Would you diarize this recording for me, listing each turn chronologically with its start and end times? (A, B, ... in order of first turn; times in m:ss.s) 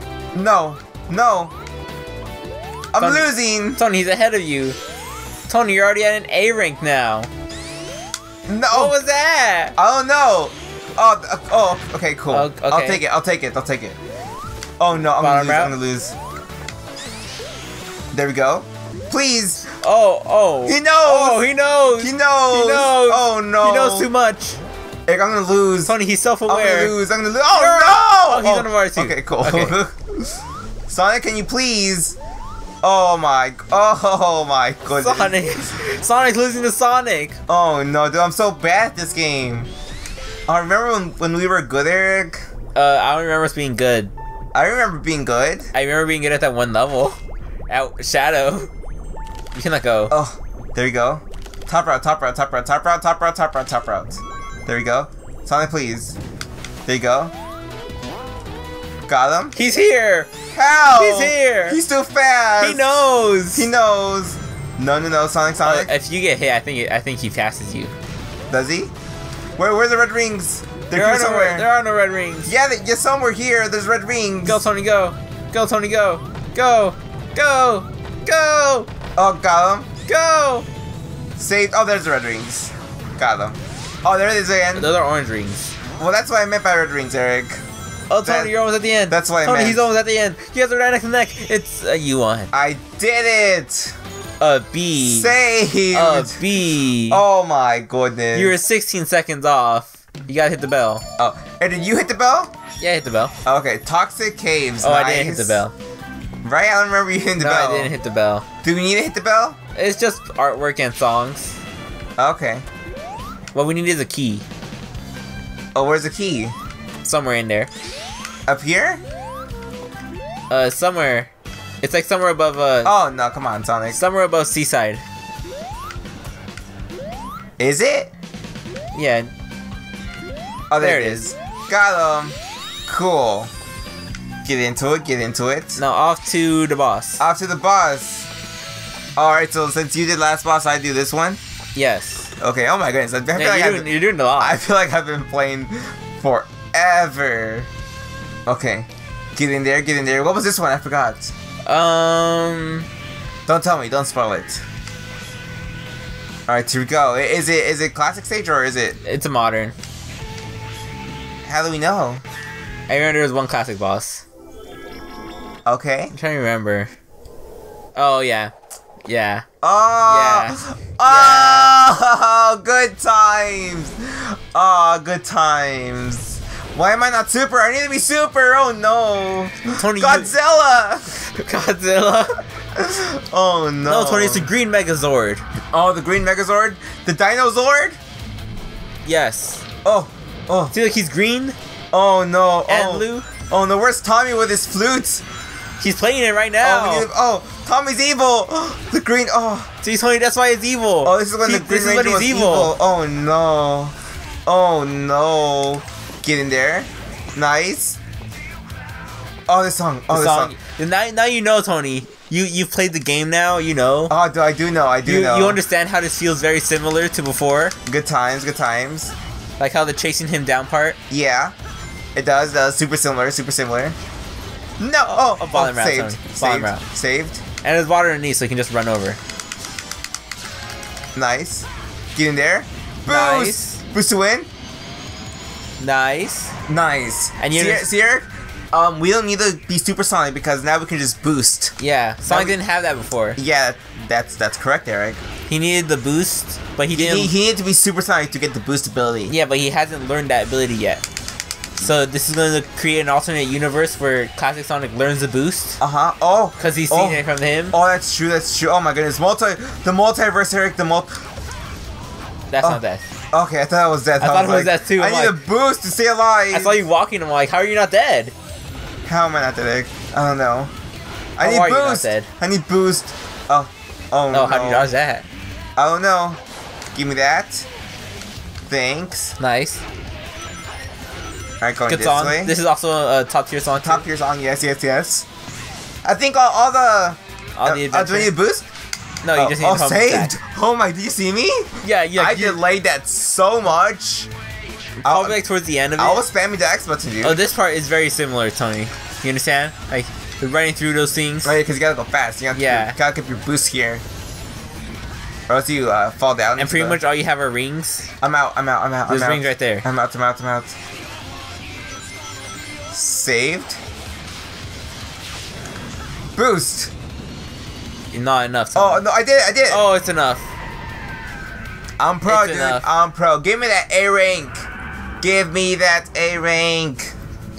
0:00.3-0:01.5 A
0:02.9-0:03.8 A
0:03.0-0:04.8 B
0:05.5-0:07.3 B
0:08.5-0:09.0 A
0:08.7-0:09.8 B
0:09.8-0:14.0 A
0:12.3-0:13.0 B
0:14.8-0:16.1 A
0:15.2-0:15.7 B
0:18.1-0:19.6 A
0:19.7-0:24.6 B
0:20.7-0:24.1 A
0:25.1-0:26.0 A
0:25.9-0:27.0 B
0:26.5-0:32.2 A
0:27.5-0:29.8 B
0:32.8-0:35.7 A
0:34.9-0:37.4 B
0:37.5-0:39.7 A
0:40.5-0:42.5 A
0:42.8-0:44.1 B
0:44.5-0:45.7 A
0:45.7-0:47.2 B
0:47.7-0:48.7 B
0:49.6-0:50.1 B
0:50.1-0:56.2 A
0:56.9-0:57.3 A
0:59.1-0:59.6 A
0:59.5-1:00.3 B
1:00.5-1:02.9 A
1:00.9-1:01.8 B
1:02.6-1:03.7 B
1:03.6-1:05.9 A
1:05.6-1:07.9 B
1:08.5-1:08.9 A
1:09.6-1:11.7 A
1:10.9-1:12.5 B
1:12.5-1:14.6 A
1:14.5-1:18.9 B
1:19.2-1:19.9 A
1:20.1-1:20.7 B
1:21.4-1:24.9 A
1:24.7-1:25.7 B
1:26.0-1:27.6 A
1:28.1-1:32.5 B
1:28.2-1:28.5 A
1:29.1-1:29.9 A
1:32.5-1:34.0 A
1:34.4-1:35.3 B
1:35.0-1:36.4 A
1:35.9-1:37.2 B
1:37.1-1:38.6 A
1:38.3-1:41.0 B
1:41.2-1:42.5 A
1:42.8-1:43.3 B
1:43.4-1:45.6 A
1:44.8-1:45.7 B
1:46.4-1:48.0 A
1:47.4-1:48.5 B
1:48.6-1:49.6 A
1:49.8-1:51.6 B
1:52.2-1:52.6 A
1:53.5-1:54.4 B
1:55.8-1:56.6 A
1:57.0-1:57.7 B
1:58.5-1:59.0 A
2:00.5-2:01.3 B
2:01.8-2:02.9 B
2:02.8-2:04.0 A
2:03.9-2:05.0 B
2:07.6-2:08.1 A
2:08.9-2:09.3 B
2:10.7-2:12.4 A
2:10.8-2:11.2 B
2:12.9-2:13.5 A
2:14.4-2:15.8 A
2:15.8-2:17.2 B
2:17.2-2:18.3 A
2:19.2-2:21.4 A
2:21.8-2:22.3 B
2:22.4-2:27.7 A
2:23.4-2:24.6 B
2:28.5-2:31.3 A
2:31.7-2:32.9 B
2:33.5-2:34.6 A
2:36.5-2:39.0 A
2:39.0-2:39.8 B
2:41.4-2:42.2 A
2:42.9-2:44.2 B
2:45.7-2:46.1 A
2:46.1-2:46.9 B
2:48.0-2:48.5 B
2:49.1-2:49.4 B
2:49.6-3:01.2 A
2:50.1-2:51.8 B
2:59.8-3:00.3 B
3:01.3-3:02.4 B
3:02.8-3:04.5 A
3:03.9-3:05.4 B
3:05.7-3:08.0 A
3:09.0-3:09.6 B
3:09.8-3:10.7 A
3:10.7-3:11.6 B
3:11.9-3:15.2 A
3:12.7-3:13.3 B
3:15.8-3:17.1 B
3:16.6-3:19.7 A
3:19.8-3:22.7 B
3:21.0-3:24.0 A
3:24.5-3:28.0 A
3:29.5-3:30.6 A
3:30.1-3:34.1 B
3:34.1-3:35.6 A
3:35.0-3:37.8 B
3:37.8-3:39.1 A
3:39.6-3:41.0 B
3:41.1-3:41.5 A
3:42.2-3:44.0 A
3:44.8-3:47.4 A
3:45.4-3:46.8 B
3:47.6-3:49.2 B
3:51.2-3:54.5 A
3:53.1-3:53.8 B
3:55.8-3:56.5 B
3:56.7-4:02.6 A
3:57.4-3:57.9 B
4:01.8-4:03.4 B
4:03.4-4:05.2 A
4:05.5-4:07.3 B
4:06.9-4:09.3 A
4:09.3-4:11.0 B
4:11.8-4:15.8 B
4:15.8-4:21.2 A
4:16.6-4:17.8 B
4:22.5-4:23.0 B
4:23.3-4:26.8 A
4:24.2-4:25.4 B
4:26.5-4:28.3 B
4:29.1-4:30.7 A
4:31.4-4:34.9 A
4:31.4-4:32.3 B
4:34.3-4:35.2 B
4:35.8-4:36.4 A
4:36.9-4:37.7 A
4:38.7-4:39.4 A
4:39.4-4:39.8 B
4:41.6-4:42.6 A
4:41.9-4:44.0 B
4:43.8-4:45.3 A
4:46.0-4:48.7 A
4:47.6-4:48.3 B
4:49.2-4:50.3 B
4:49.4-4:54.3 A
4:51.8-4:52.6 B
4:55.0-4:56.2 B
4:55.0-4:55.4 A
4:56.0-4:57.4 A
4:57.2-5:01.6 B
5:01.4-5:04.0 A
5:02.5-5:03.0 B
5:05.5-5:07.0 A
5:06.6-5:08.1 B
5:08.2-5:10.7 A
5:09.1-5:09.8 B
5:12.9-5:13.8 A
5:16.4-5:16.9 A
5:18.1-5:19.0 B
5:18.8-5:19.8 A
5:19.7-5:20.4 B
5:22.0-5:24.7 A
5:22.2-5:22.8 B
5:25.2-5:27.1 A